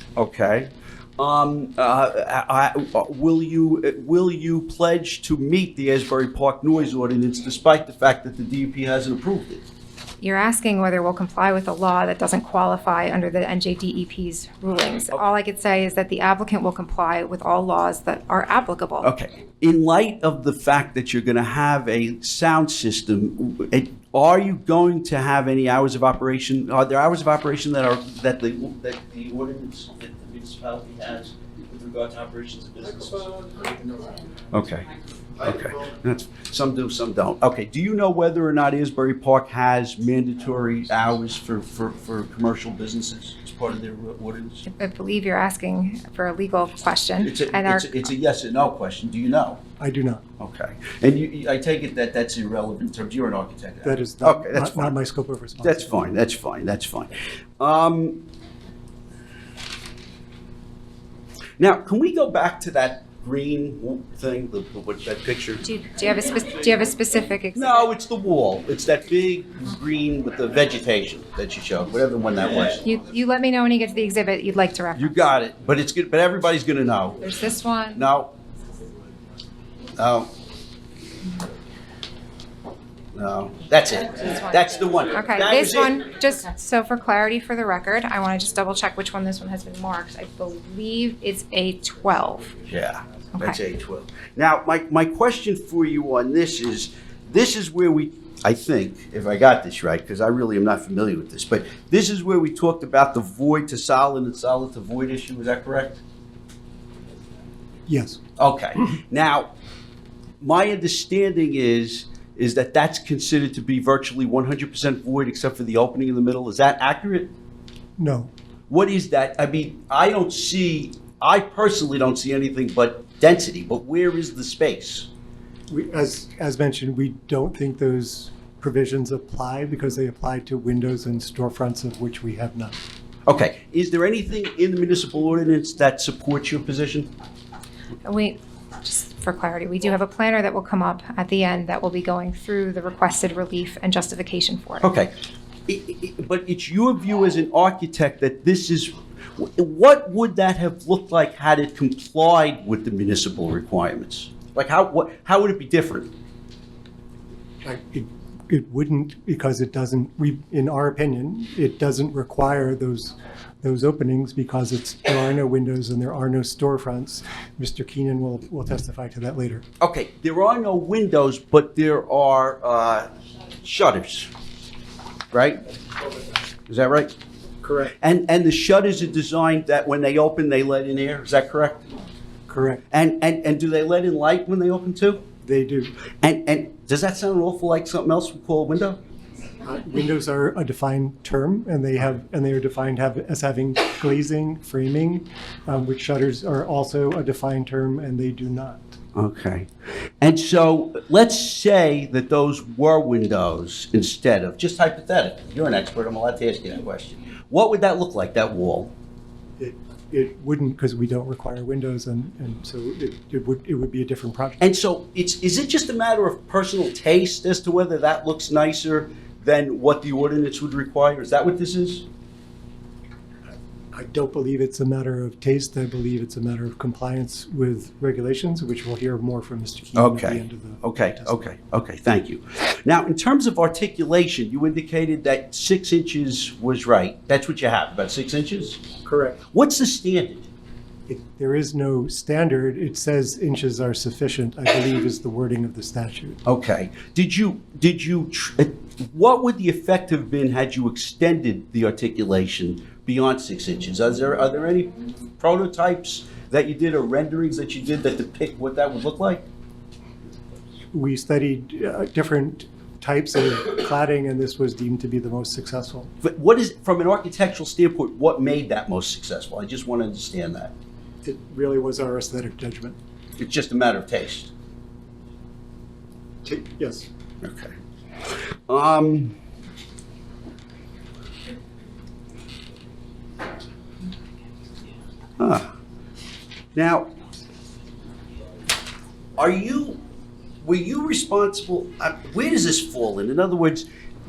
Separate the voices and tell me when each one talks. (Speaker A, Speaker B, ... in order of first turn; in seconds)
Speaker A: 0.2-9.6, 19.0-33.4, 34.5-34.9, 35.4-44.6, 47.2-49.6, 50.4-55.0, 55.6-58.2, 61.6-65.6, 67.6-72.8, 75.0-77.2, 78.0-78.3, 80.0-80.3, 83.2-86.0, 92.7-106.0, 108.4-109.5, 110.4-117.3, 118.7-125.1, 133.3-137.1, 144.8-145.1, 145.7-156.1, 169.8-173.1, 173.6-174.3, 175.3-175.6, 176.7-177.1, 178.0-181.8, 182.9-185.2, 186.2-189.0, 199.2-199.7, 200.2-208.9, 214.6-222.1, 229.9-238.8, 239.5-240.5, 246.5-259.4, 266.2-270.7, 273.4-274.5, 277.4-277.7, 278.7-279.4, 285.4-285.7, 286.8-287.1, 289.4-290.0, 290.6-293.9
Speaker B: 10.2-19.1, 44.7-48.1, 65.6-67.9, 72.8-75.2, 77.2-78.1, 84.2-92.6, 138.1-144.9
Speaker C: 49.8-50.2, 53.9-56.0, 107.9-108.2, 118.0-118.3, 125.7-132.8, 157.6-169.6, 177.6-177.9, 182.5-182.8, 185.4-185.9, 189.6-198.9, 209.6-214.6, 223.9-231.5, 239.1-239.4, 241.1-246.4, 260.9-266.1, 271.2-273.0, 276.4-277.1